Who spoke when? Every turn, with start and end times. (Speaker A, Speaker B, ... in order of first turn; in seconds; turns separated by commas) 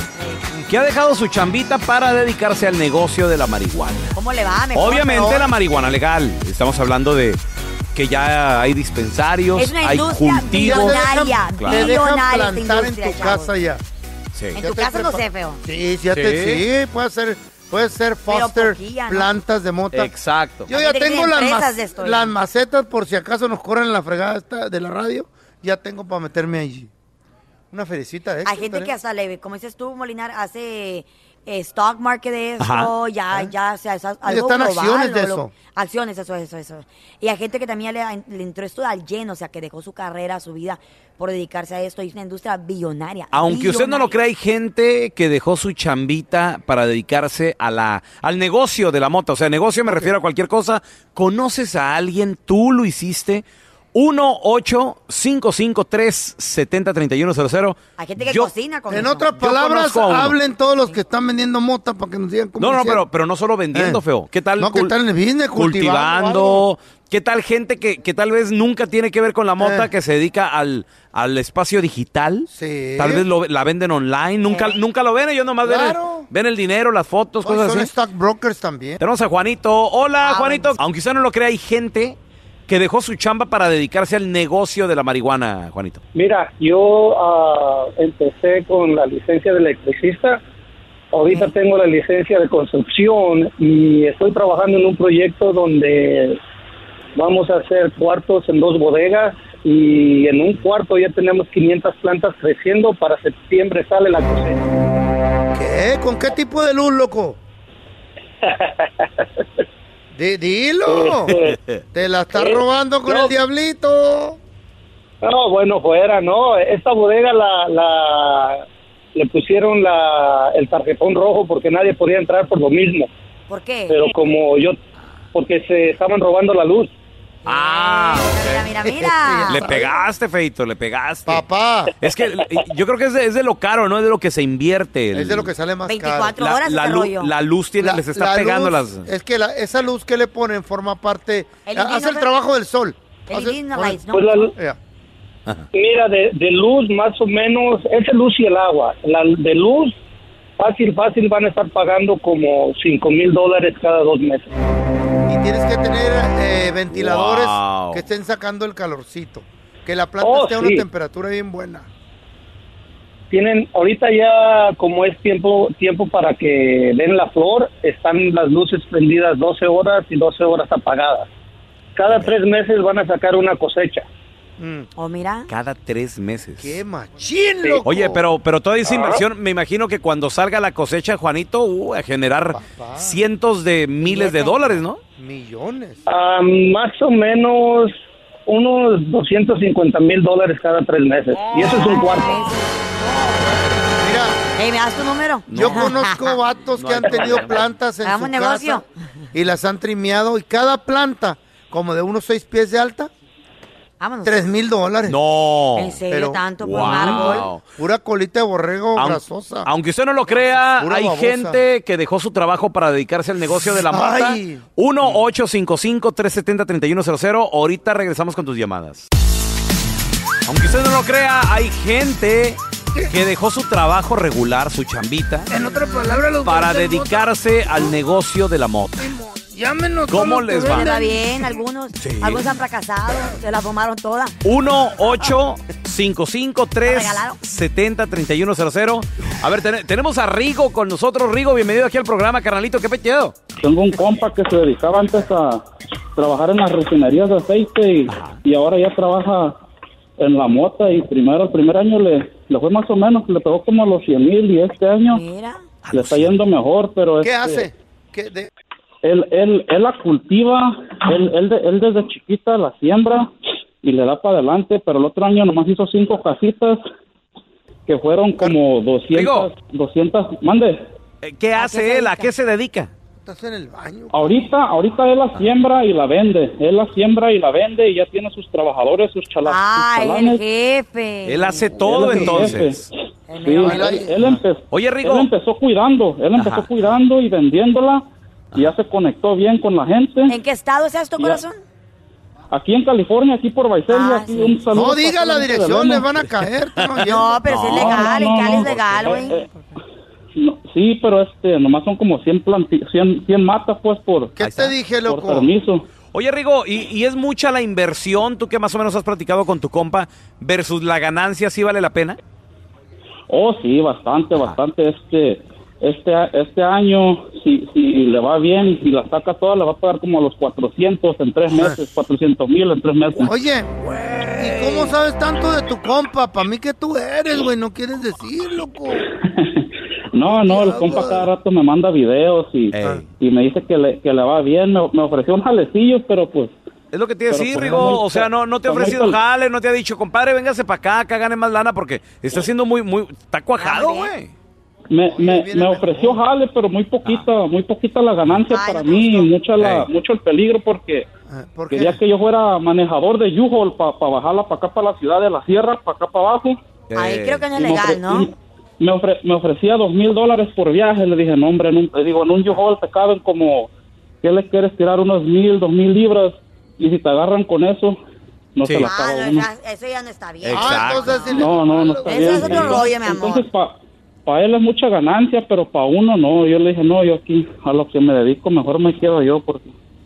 Speaker A: 0.5-4.1, Speaker B: 4.1-5.5, Speaker A: 4.7-7.4, Speaker A: 7.9-11.0, Speaker B: 9.6-13.5, Speaker C: 10.5-13.8, Speaker A: 11.6-11.9, Speaker A: 14.3-14.6, Speaker B: 14.6-15.6, Speaker C: 14.6-20.1, Speaker A: 16.1-16.6, Speaker B: 18.3-19.3, Speaker A: 19.9-20.7, Speaker C: 20.7-26.9, Speaker B: 20.7-22.3, Speaker C: 27.7-28.9, Speaker B: 28.4-44.1, Speaker A: 32.6-32.9, Speaker C: 34.2-35.5, Speaker A: 43.3-58.5, Speaker B: 58.0-59.3, Speaker C: 58.9-63.0, Speaker A: 59.4-60.3, Speaker A: 62.6-64.9, Speaker C: 63.7-64.0, Speaker C: 64.6-66.7, Speaker A: 65.5-77.9, Speaker C: 69.6-69.9, Speaker C: 72.5-73.2, Speaker C: 75.6-76.3, Speaker C: 77.4-79.0, Speaker A: 79.0-82.2, Speaker B: 80.2-80.8, Speaker A: 82.7-86.0, Speaker D: 86.1-90.4, Speaker D: 91.1-96.4, Speaker D: 97.2-104.6, Speaker C: 105.5-107.4, Speaker D: 108.4-109.1, Speaker C: 110.1-111.4, Speaker D: 110.9-111.5, Speaker A: 111.3-111.8, Speaker C: 111.9-114.4, Speaker D: 112.3-113.3, Speaker D: 115.2-123.1, Speaker B: 123.5-124.1, Speaker D: 123.9-124.8, Speaker D: 125.3-126.9, Speaker B: 127.4-129.6, Speaker A: 127.5-128.7, Speaker C: 128.8-130.0, Speaker A: 129.5-131.4, Speaker C: 131.2-131.9, Speaker A: 132.0-135.5, Speaker C: 135.1-136.4, Speaker B: 135.8-137.3, Speaker A: 136.4-139.1, Speaker C: 137.8-144.8, Speaker B: 141.7-142.3, Speaker B: 143.3-144.4, Speaker D: 144.1-144.5, Speaker D: 145.7-150.0, Speaker D: 150.6-154.5, Speaker C: 155.2-161.9, Speaker A: 156.9-158.1, Speaker D: 160.2-160.8, Speaker D: 163.3-171.3, Speaker D: 171.9-174.1, Speaker C: 174.6-174.9, Speaker B: 175.0-175.5, Speaker A: 175.5-176.8, Speaker C: 176.6-178.2, Speaker A: 177.8-185.0, Speaker D: 178.8-179.2, Speaker C: 182.5-183.2, Speaker B: 184.0-184.7, Speaker C: 185.2-186.0, Speaker D: 186.1-187.9, Speaker D: 188.5-192.4, Speaker B: 191.8-192.6, Speaker C: 193.1-194.4, Speaker B: 194.6-196.3, Speaker A: 195.5-196.0, Speaker C: 195.5-203.1, Speaker A: 196.8-197.7, Speaker B: 198.0-198.8, Speaker B: 204.0-204.5, Speaker C: 204.2-205.2, Speaker A: 205.1-206.0, Speaker B: 205.8-207.5, Speaker C: 206.1-209.7, Speaker A: 206.6-207.6, Speaker A: 208.9-219.0, Speaker C: 210.4-211.6, Speaker C: 213.9-215.2, Speaker A: 220.4-225.5, Speaker C: 225.5-227.9, Speaker B: 225.6-226.2, Speaker A: 226.4-229.1, Speaker C: 229.0-231.6, Speaker A: 230.1-230.9, Speaker B: 230.5-234.3, Speaker A: 232.0-232.4, Speaker A: 234.4-243.4, Speaker B: 236.8-237.4, Speaker E: 243.6-245.6, Speaker E: 246.2-249.6, Speaker A: 248.1-248.4, Speaker E: 250.2-255.2, Speaker B: 255.1-255.6, Speaker A: 255.8-256.4, Speaker E: 255.9-257.7, Speaker C: 257.2-258.5, Speaker E: 259.0-263.3, Speaker E: 263.8-266.8, Speaker E: 267.9-270.8, Speaker A: 269.1-269.5, Speaker A: 271.2-272.9, Speaker B: 271.6-272.3, Speaker C: 273.2-274.5, Speaker E: 274.1-280.4, Speaker B: 279.4-282.5, Speaker A: 281.2-282.8, Speaker E: 281.8-282.9, Speaker B: 283.3-284.1, Speaker E: 283.4-290.4, Speaker C: 283.6-284.4, Speaker A: 284.7-285.3, Speaker A: 286.4-286.7, Speaker B: 290.3-291.6, Speaker E: 292.5-296.3, Speaker B: 293.9-294.6, Speaker C: 294.7-297.4, Speaker A: 296.8-299.2, Speaker B: 297.0-299.4, Speaker E: 297.6-299.4, Speaker E: 300.4-304.4, Speaker C: 304.4-305.5, Speaker A: 304.4-304.7, Speaker E: 305.0-305.9, Speaker A: 306.1-312.1, Speaker E: 313.3-323.4, Speaker C: 321.5-321.8, Speaker C: 323.2-329.1, Speaker A: 323.8-324.9, Speaker E: 329.4-336.5, Speaker C: 330.2-331.3, Speaker A: 332.7-333.0, Speaker A: 336.9-344.3, Speaker E: 337.3-339.2, Speaker B: 343.6-344.1, Speaker E: 344.9-351.1, Speaker C: 345.1-346.2, Speaker B: 348.5-349.3, Speaker A: 349.6-349.9, Speaker C: 351.3-352.0, Speaker E: 351.7-356.6, Speaker A: 356.9-357.4, Speaker B: 356.9-358.3, Speaker E: 357.5-363.7, Speaker E: 364.2-368.0, Speaker E: 368.6-369.5, Speaker A: 368.6-368.9, Speaker B: 368.8-371.5, Speaker A: 370.4-371.3, Speaker C: 370.5-372.8, Speaker E: 371.3-379.7, Speaker B: 372.0-373.4